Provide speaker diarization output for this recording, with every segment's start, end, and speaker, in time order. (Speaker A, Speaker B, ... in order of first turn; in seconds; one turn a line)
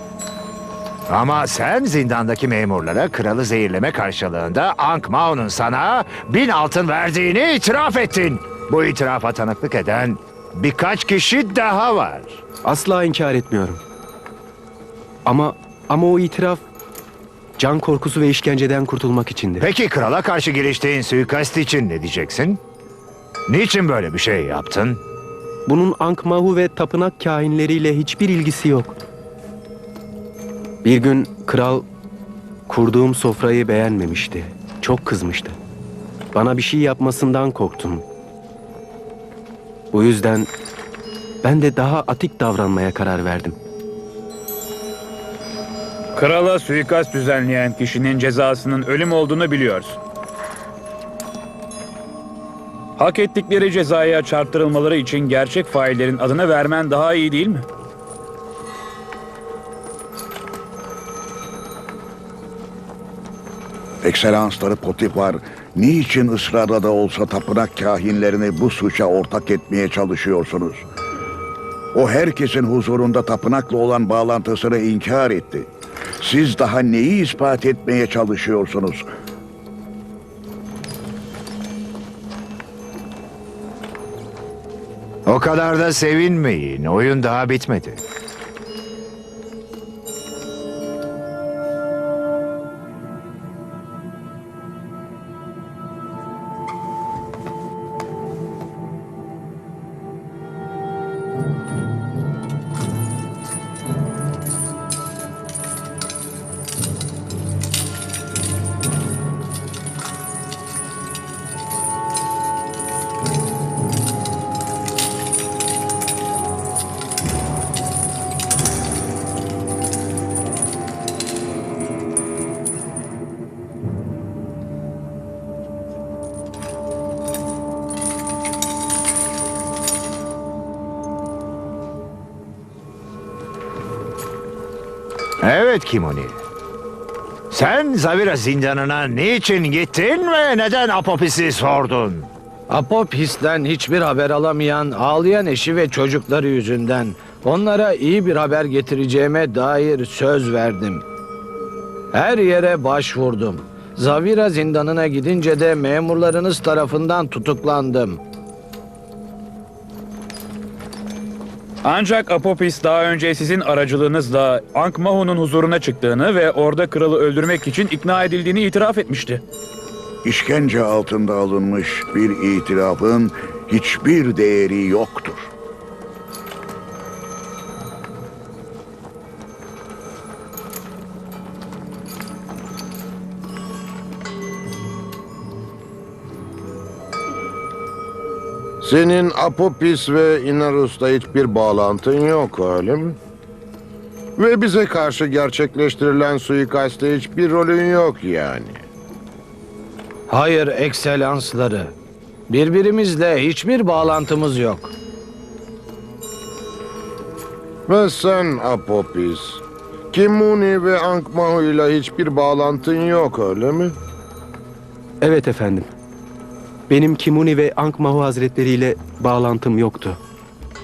Speaker A: 1.1-12.4
Speaker B: 12.6-13.8
Speaker B: 15.2-16.7
Speaker B: 17.6-19.7
Speaker A: 19.6-22.6
Speaker A: 23.5-25.0
Speaker B: 25.7-29.0
Speaker B: 30.8-31.9
Speaker B: 32.7-35.6
Speaker B: 36.3-38.0
Speaker B: 39.9-40.5
Speaker B: 41.4-43.6
Speaker C: 46.1-50.0
Speaker C: 53.0-57.7
Speaker D: 64.0-70.9
Speaker D: 71.9-75.7
Speaker D: 76.2-79.1
Speaker A: 85.3-88.0
Speaker A: 135.4-136.4
Speaker A: 137.5-142.3
Speaker E: 142.7-151.0
Speaker E: 152.1-158.2
Speaker C: 161.8-169.4
Speaker D: 170.2-175.5
Speaker F: 188.8-193.2
Speaker F: 194.4-198.8
Speaker E: 200.3-201.9
Speaker E: 202.5-204.9
Speaker F: 207.9-214.0
Speaker B: 215.2-215.9
Speaker B: 216.9-220.2